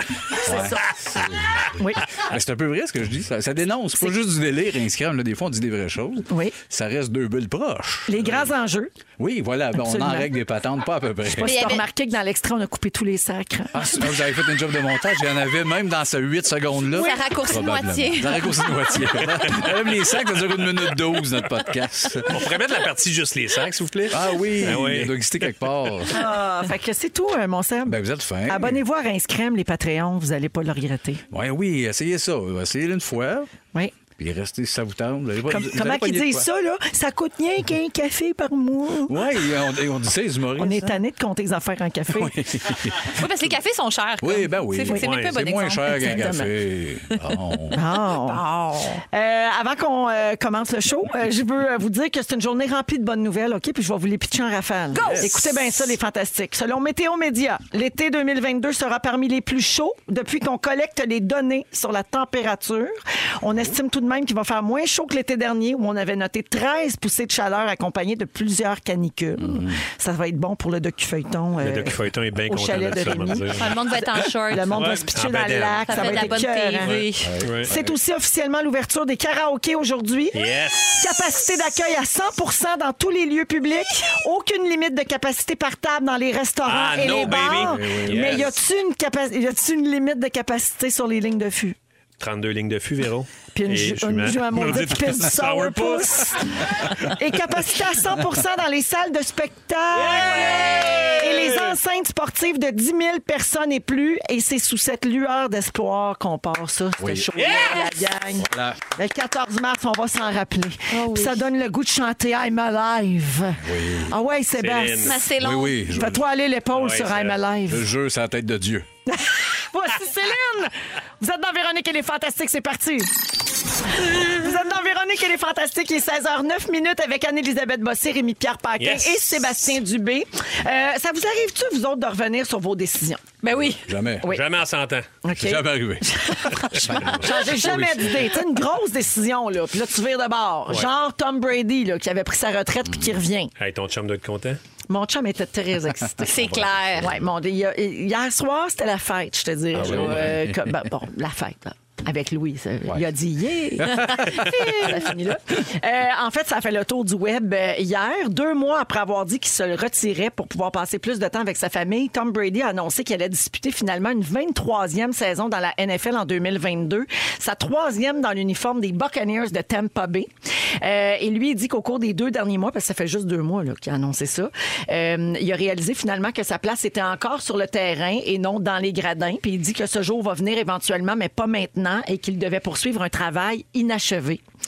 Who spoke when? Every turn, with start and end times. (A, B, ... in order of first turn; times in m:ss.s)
0:00.4-0:00.9 A
0:00.4-0:08.4 B
0:01.8-0:02.0 A
0:06.3-0:06.5 A
0:08.1-0:08.9 A
0:09.2-0:11.7 B
0:09.8-0:10.3 A
0:11.4-0:13.8 A
0:11.4-0:11.8 C
0:13.7-0:22.4 B
0:16.9-0:19.0 C
0:22.2-0:25.5 D
0:24.1-0:26.3 B
0:26.1-0:31.2 A
0:27.9-0:28.8 B
0:31.3-0:33.5 B
0:34.2-0:36.5 B
0:35.5-0:39.2 A
0:39.1-0:41.0 B
0:40.6-0:42.4 A
0:42.1-0:43.3 B
0:43.1-0:46.5 C
0:44.2-0:47.8 B
0:45.0-0:45.3 D
0:47.7-0:48.4 A
0:47.9-0:49.0 C
0:49.1-1:17.0 A
0:54.9-0:55.5 C
0:55.0-0:55.6 B
1:09.4-1:09.8 B
1:11.6-1:13.7 D
1:13.5-1:15.0 C
1:14.7-1:17.7 D
1:15.9-1:17.3 C
1:17.2-1:18.0 B
1:17.6-1:20.4 A
1:20.3-1:21.4 D
1:21.0-1:31.8 A
1:26.6-1:28.5 D
1:27.0-1:28.6 B
1:32.2-1:36.5 D
1:33.5-1:40.6 A
1:39.9-1:41.8 D
1:40.0-1:41.2 C
1:41.2-1:55.2 A
1:47.0-1:47.3 B
1:47.4-1:47.9 D
1:47.5-1:47.8 C
1:48.4-1:48.8 B
1:50.9-1:51.5 C
1:53.6-1:54.1 B
1:54.6-1:55.2 D
1:55.0-1:55.8 C
1:55.4-1:56.2 B
1:55.9-1:57.9 A
1:56.7-1:57.4 D
1:57.7-1:58.9 B
1:59.1-2:03.1 A
2:03.9-2:13.3 A
2:08.8-2:09.7 D
2:13.4-2:13.8 C
2:13.5-2:14.4 B
2:14.2-2:15.1 D
2:15.2-2:23.5 A
2:15.3-2:18.4 B
2:23.6-2:24.6 D
2:24.9-2:26.3 A
2:26.2-2:27.1 C
2:26.3-2:27.1 B
2:27.0-3:04.4 A
2:29.7-2:30.4 D
2:29.8-2:30.7 B
2:33.8-2:35.0 B